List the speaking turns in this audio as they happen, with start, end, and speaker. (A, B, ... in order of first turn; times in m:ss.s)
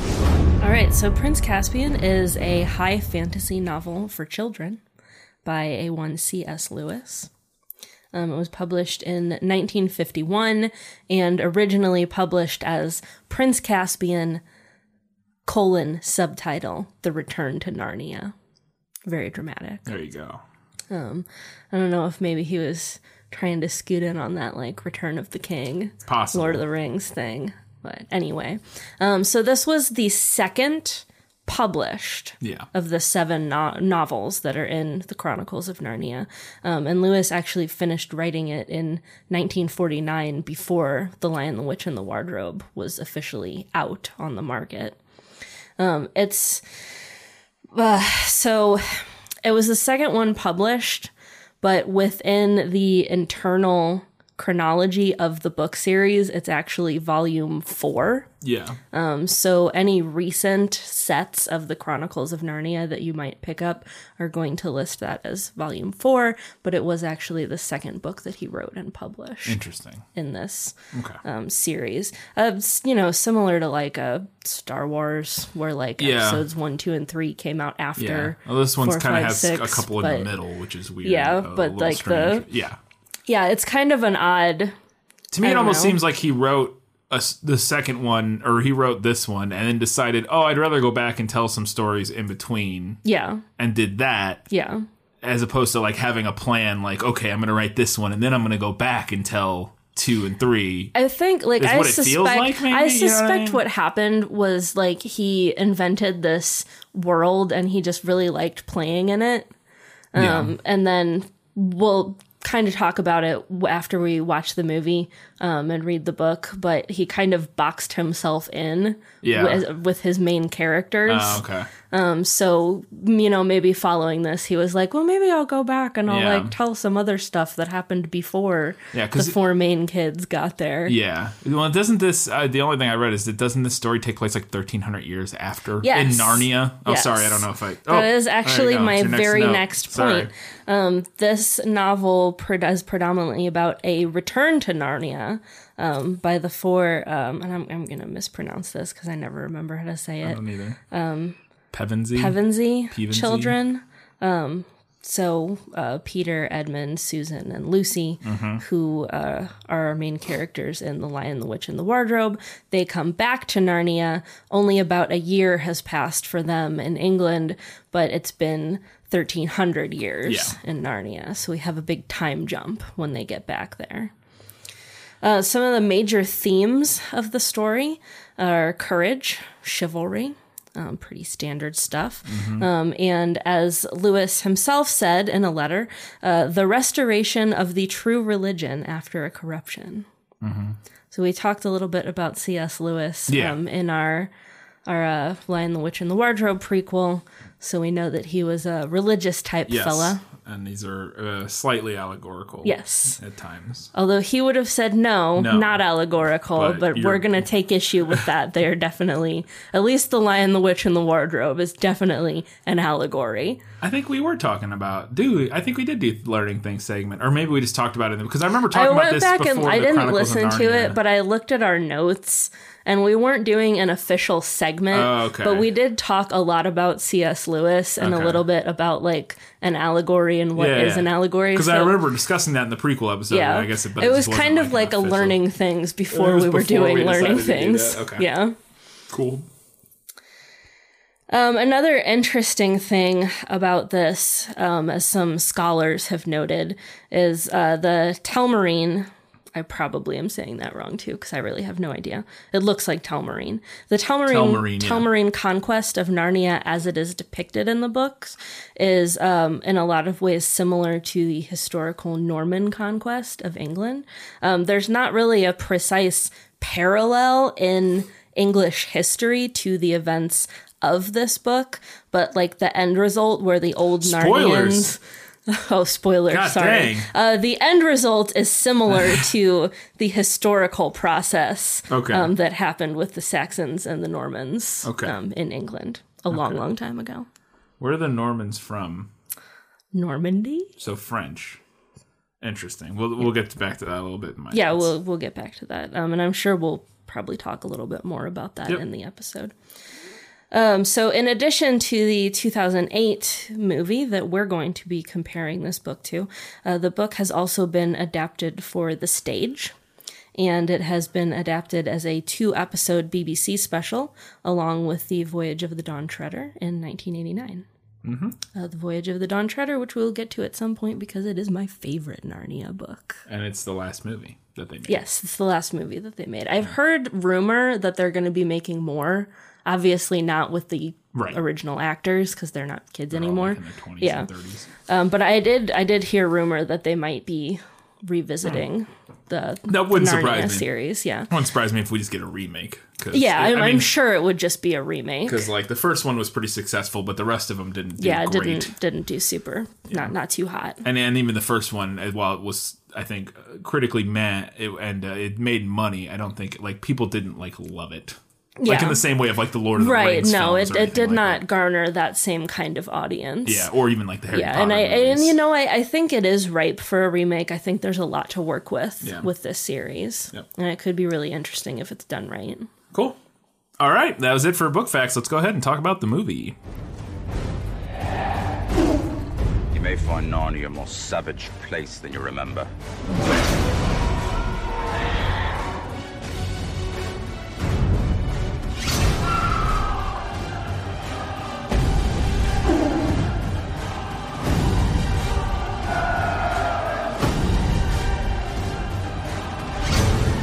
0:00.6-0:04.8 A
0:05.4-0:07.3 A
0:08.1-0:14.4 A
0:15.5-0:18.3 A
0:19.1-0:19.9 A
0:19.9-0:20.4 B
0:20.9-0:45.0 A
0:26.1-0:26.6 B
0:32.4-0:32.7 B
0:45.8-0:46.6 A
0:47.7-0:58.3 A
0:58.4-0:58.8 B
0:58.9-1:09.6 A
1:09.4-1:10.1 B
1:10.2-1:20.3 A
1:10.9-1:11.2 B
1:16.0-1:16.4 B
1:18.0-1:22.8 B
1:21.0-1:22.5 A
1:23.3-1:24.7 A
1:25.3-1:33.0 B
1:25.4-1:26.0 A
1:33.0-1:33.4 A
1:33.6-1:34.5 B
1:34.5-1:34.8 A
1:35.2-1:40.9 B
1:40.9-1:49.5 A
1:41.6-1:43.6 B
1:50.1-2:11.0 A
1:50.2-1:50.6 B
1:59.2-1:59.6 B
2:01.1-2:01.7 B
2:06.1-2:06.5 B
2:08.9-2:09.4 B
2:10.9-2:20.3 B
2:15.8-2:31.4 A
2:30.2-2:30.8 B
2:31.7-2:33.6 B
2:32.2-2:54.1 A
2:38.2-2:38.6 B
2:50.2-2:50.6 B
2:55.2-3:10.1 A
3:02.3-3:02.7 B
3:10.4-3:10.8 B
3:11.1-3:14.3 A
3:13.3-3:13.6 B
3:14.9-3:20.2 A
3:19.7-3:23.9 B
3:22.6-3:23.2 A
3:23.9-3:33.6 A
3:25.4-3:25.8 B
3:26.5-3:27.4 B
3:33.8-3:41.0 B
3:38.7-3:52.0 A
3:44.9-3:45.7 B
3:48.0-3:48.4 B
3:50.6-3:55.4 B
3:53.3-3:58.6 A
3:56.1-3:58.3 B
3:59.1-3:59.5 B
4:01.3-4:47.3 A
4:14.3-4:15.1 B
4:34.0-4:34.9 B
4:36.3-4:37.1 B
4:41.9-4:42.3 B
4:44.8-4:45.1 B
4:46.3-4:46.6 B
4:47.8-4:49.1 B
4:49.9-4:50.7 A
4:50.8-4:51.6 B
4:52.4-4:54.9 B
4:54.5-4:59.5 A
5:00.5-5:09.7 A
5:10.4-5:17.7 A
5:18.0-5:18.4 B
5:18.5-5:23.2 A
5:23.3-5:25.0 B
5:24.9-5:34.3 A
5:31.1-5:31.4 B
5:33.1-5:34.7 B
5:34.9-5:41.3 A
5:39.7-5:40.7 B
5:41.3-5:43.9 B
5:43.1-5:45.5 A
5:45.2-5:48.7 B
5:48.0-5:50.8 A
5:49.9-5:50.1 B
5:50.8-6:01.4 B
5:58.6-5:59.0 A
5:59.8-6:03.7 A
6:03.4-6:05.4 B
6:04.3-6:12.7 A
6:09.0-6:09.3 B
6:12.9-6:13.2 B
6:13.8-6:16.6 B
6:19.7-6:22.7 C